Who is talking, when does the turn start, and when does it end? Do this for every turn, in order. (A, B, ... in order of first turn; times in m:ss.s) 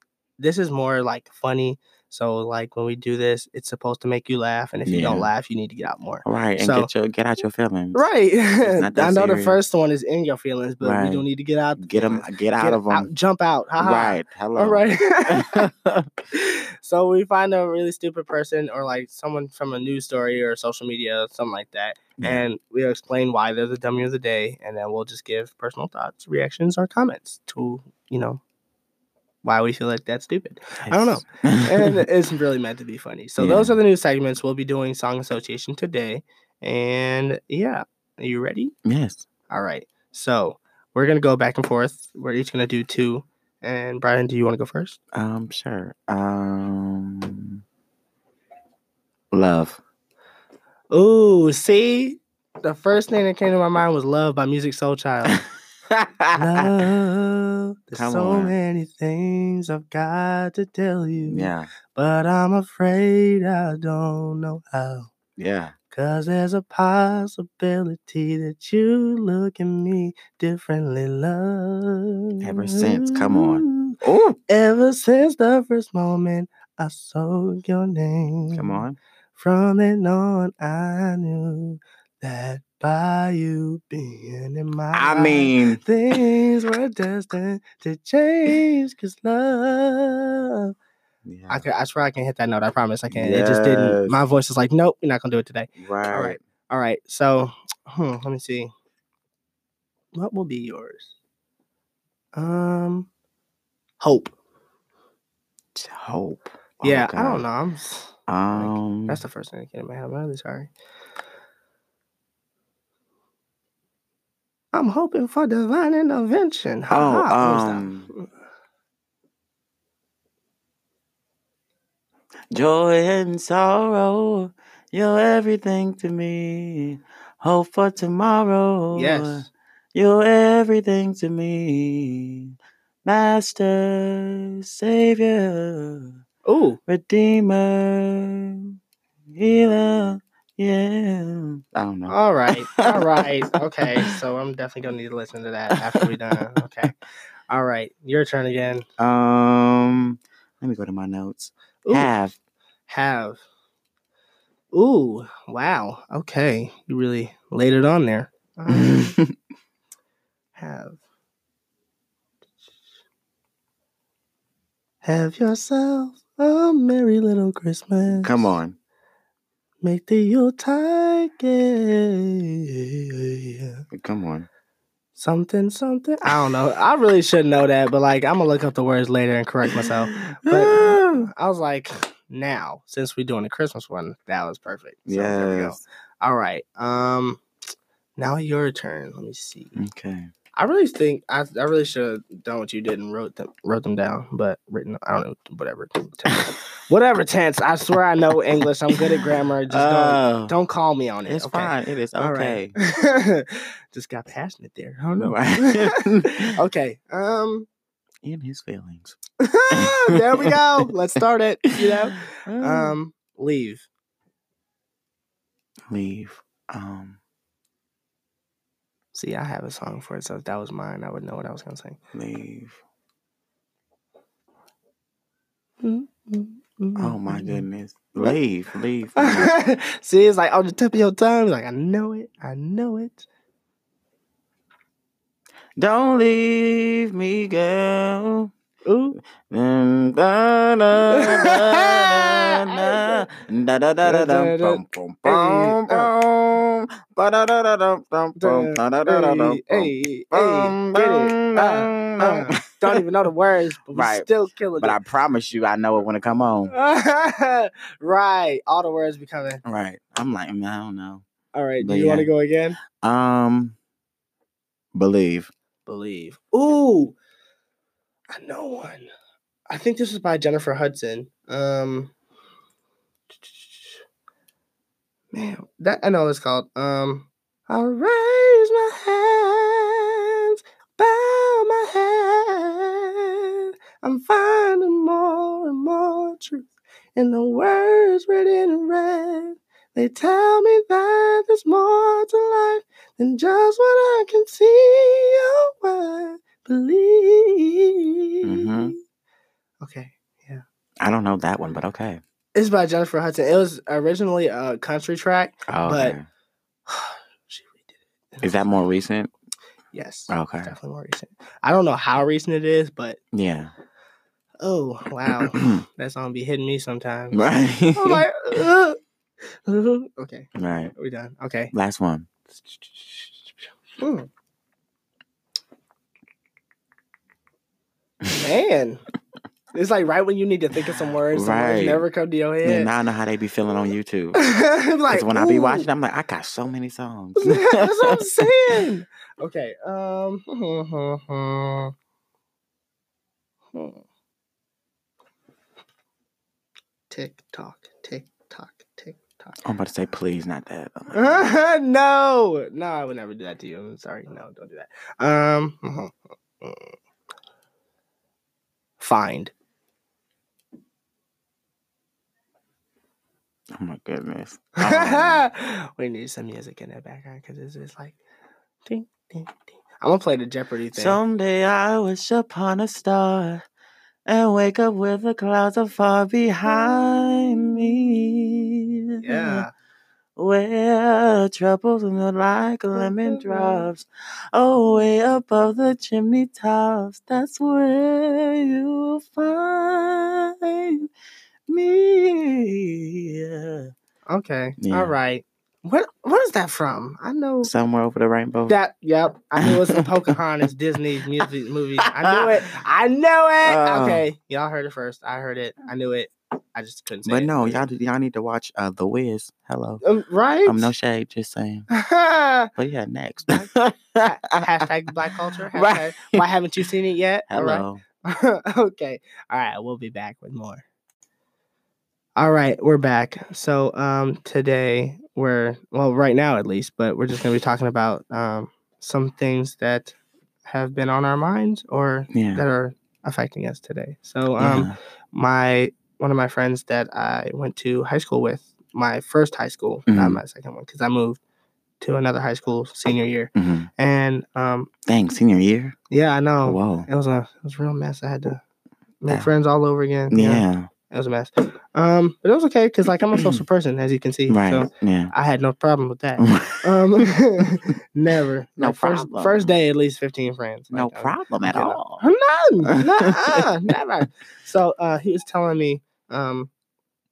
0:00.4-0:06.9 A
0:04.8-0:05.3 B
0:06.2-0:08.0 B
0:07.9-0:15.7 A
0:08.6-0:09.6 B
0:10.8-0:13.1 B
0:13.8-0:16.1 B
0:16.3-0:28.4 A
0:22.2-0:22.4 B
0:29.4-0:38.7 A
0:30.8-0:32.0 B
0:33.4-0:33.7 B
0:38.8-0:39.2 B
0:39.5-0:45.0 A
0:45.1-0:47.6 B
0:49.3-0:49.8 B
0:50.9-0:55.4 A
0:55.9-0:56.8 B
0:56.3-1:05.1 A
0:57.9-0:58.5 B
1:01.2-1:01.7 B
1:05.4-1:05.7 B
1:05.9-1:13.9 A
1:12.4-1:14.4 B
1:14.5-1:18.8 A
1:18.5-1:19.0 B
1:19.4-1:30.7 A
1:24.9-1:25.8 B
1:31.2-1:31.6 B
1:31.5-1:38.7 A
1:33.1-1:34.2 B
1:35.8-1:36.4 B
1:40.1-1:41.1 A
1:42.3-1:43.1 A
1:44.0-1:44.3 A
1:45.7-1:47.4 B
1:46.8-1:50.7 A
1:48.3-1:49.2 B
1:54.7-1:58.3 A
1:56.9-1:58.1 B
2:02.5-2:12.5 B
2:08.9-2:09.5 A
2:13.0-2:16.2 B
2:16.5-2:16.8 A
2:16.9-2:18.8 B
2:19.3-2:22.2 B
2:22.1-2:26.9 A
2:22.7-2:23.1 B
2:23.8-2:24.2 B
2:25.7-2:26.6 B
2:27.5-2:28.8 A
2:29.0-2:32.4 B
2:31.8-2:32.1 A
2:32.9-2:33.4 A
2:34.7-2:39.2 A
2:38.7-2:39.3 B
2:40.6-2:41.0 A
2:45.0-2:48.5 A
2:48.0-2:48.8 B
2:49.8-2:53.8 A
2:53.9-2:54.5 B
2:55.2-3:07.4 A
2:59.7-3:01.3 B
3:05.1-3:05.8 B
3:08.2-3:09.8 A
3:09.8-3:10.3 B
3:10.6-3:27.7 A
3:19.7-3:20.5 B
3:21.2-3:22.7 B
3:25.2-3:26.5 B
3:28.2-3:29.2 B
3:29.4-3:33.8 A
3:29.7-3:30.5 B
3:32.3-3:33.0 B
3:35.9-3:37.2 B
3:39.1-3:42.0 A
3:42.1-3:42.8 B
3:45.8-3:47.6 A
3:47.0-3:49.5 B
3:49.2-3:53.2 A
3:55.8-3:58.5 B
3:58.8-3:59.2 A
3:59.3-4:13.0 B
4:01.1-4:03.2 A
4:04.0-4:06.1 A
4:08.4-4:15.0 A
4:13.9-4:16.7 B
4:16.7-4:19.6 A
4:19.6-4:21.2 B
4:21.5-4:22.8 A
4:21.8-4:22.3 B
4:22.9-4:23.8 B
4:24.9-4:25.5 B
4:25.8-4:27.1 A
4:28.3-4:29.1 A
4:29.7-4:32.1 A
4:33.4-4:34.0 A
4:35.3-4:59.0 A
4:58.4-4:59.0 B
4:59.8-5:00.6 A
5:01.0-5:02.2 B
5:02.5-5:06.2 A
5:05.7-5:06.2 B
5:06.9-5:08.5 A
5:08.4-5:09.3 B
5:09.9-5:13.2 A
5:10.3-5:10.7 B
5:13.3-5:13.7 B
5:14.6-5:21.7 A
5:15.3-5:15.8 B
5:17.3-5:18.2 B
5:20.6-5:20.9 B
5:21.7-5:22.3 B
5:24.0-5:24.3 A
5:28.4-5:29.0 A
5:29.7-5:32.9 A
5:31.3-5:32.0 B
5:32.6-5:34.4 B
5:34.4-5:35.9 A
5:35.1-5:38.2 B
5:37.4-5:41.9 A
5:43.7-5:44.0 A
5:47.1-5:49.6 A
5:49.6-5:51.4 B
5:51.1-5:56.9 A
5:59.0-5:59.5 A
6:03.7-6:05.4 B
6:04.8-6:08.2 A
6:08.8-6:11.2 A
6:10.9-6:13.6 B
6:14.2-6:19.6 B
6:19.2-6:19.7 A
6:20.4-6:31.1 B
6:31.7-6:33.9 B
6:34.3-6:37.7 A
6:34.8-6:35.1 B
6:37.6-6:38.8 B
6:38.7-6:47.8 A
6:39.6-6:39.9 B
6:42.1-6:42.4 B
6:43.6-6:44.2 B
6:47.2-6:50.0 B
6:50.0-6:50.9 A
6:50.6-6:51.8 B
6:51.9-6:52.7 A
6:52.7-6:54.7 B
6:54.2-7:00.8 A
6:55.7-6:56.4 B
6:57.5-6:58.0 B
7:02.4-7:21.4 A
7:12.3-7:12.6 B
7:14.6-7:14.9 B
7:20.1-7:20.4 B
7:22.0-7:24.9 A
7:23.6-7:23.9 B
7:25.0-7:26.0 B
7:26.1-7:28.6 A
7:26.6-7:27.1 B
7:29.2-7:46.7 A
7:30.3-7:30.9 B
7:33.3-7:33.6 B
7:34.5-7:35.3 B
7:36.4-7:36.9 B
7:38.8-7:39.7 B
7:40.9-7:42.2 B
7:42.8-7:43.6 B